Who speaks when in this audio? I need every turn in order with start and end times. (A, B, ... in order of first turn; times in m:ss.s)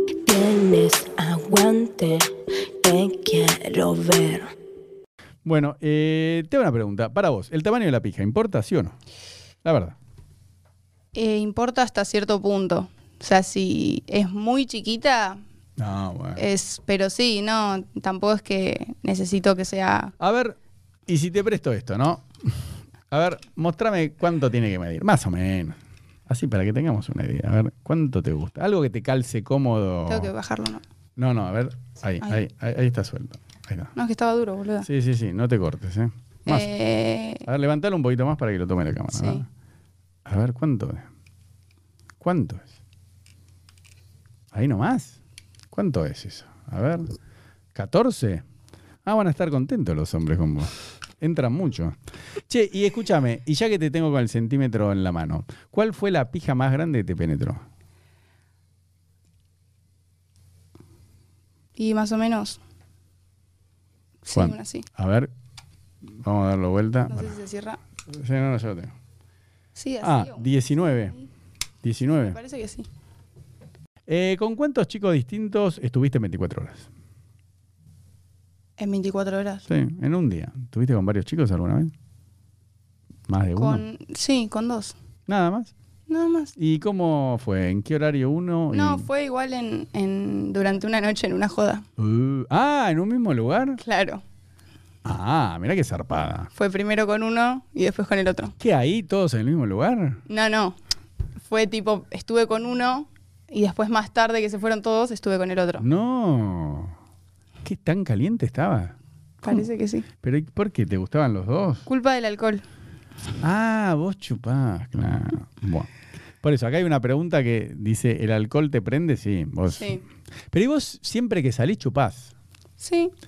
0:00.2-0:02.3 A
0:02.8-0:04.5 A
0:05.4-0:08.9 B
0:09.6-0:09.9 B
0:11.1-0:15.4 C
0:15.8-0:16.5 B
0:16.4-0:20.1 C
0:20.2-0:22.2 B
0:23.1-0:30.3 B
0:30.1-0:30.8 C
0:31.2-0:33.9 B
0:33.9-0:34.9 C
0:34.8-0:36.7 B
0:36.4-0:37.4 C
0:37.4-0:39.5 B
0:39.1-0:39.4 C
0:40.2-0:41.1 B
0:42.2-0:42.7 B
0:44.5-0:45.2 B
0:45.7-0:47.1 B
0:47.7-0:48.4 B
0:49.0-0:52.0 B
0:52.5-0:57.6 B
1:01.8-1:02.6 C
1:04.2-1:04.8 C
1:04.3-1:05.3 B
1:06.2-1:07.3 B
1:07.1-1:07.8 C
1:08.1-1:08.9 B
1:09.8-1:10.5 C
1:10.0-1:11.2 B
1:11.8-1:12.4 B
1:12.2-1:12.9 C
1:14.1-1:16.8 B
1:18.8-1:19.6 C
1:19.7-1:21.9 B
1:23.3-1:23.8 B
1:23.6-1:24.9 C
1:25.3-1:25.7 B
1:26.1-1:26.5 C
1:26.6-1:29.0 B
1:28.7-1:31.8 C
1:32.0-1:33.8 B
1:33.8-1:34.2 C
1:35.0-1:36.5 B
1:36.5-1:38.5 C
1:38.6-1:40.2 B
1:40.3-1:40.8 C
1:41.4-1:45.8 C
1:45.8-1:46.9 B
1:47.6-1:49.0 B
1:49.4-1:50.1 C
1:50.2-1:51.8 B
1:51.8-1:52.6 C
1:53.4-1:55.9 B
1:56.4-2:02.3 B
1:59.7-2:00.0 C
2:02.8-2:03.1 C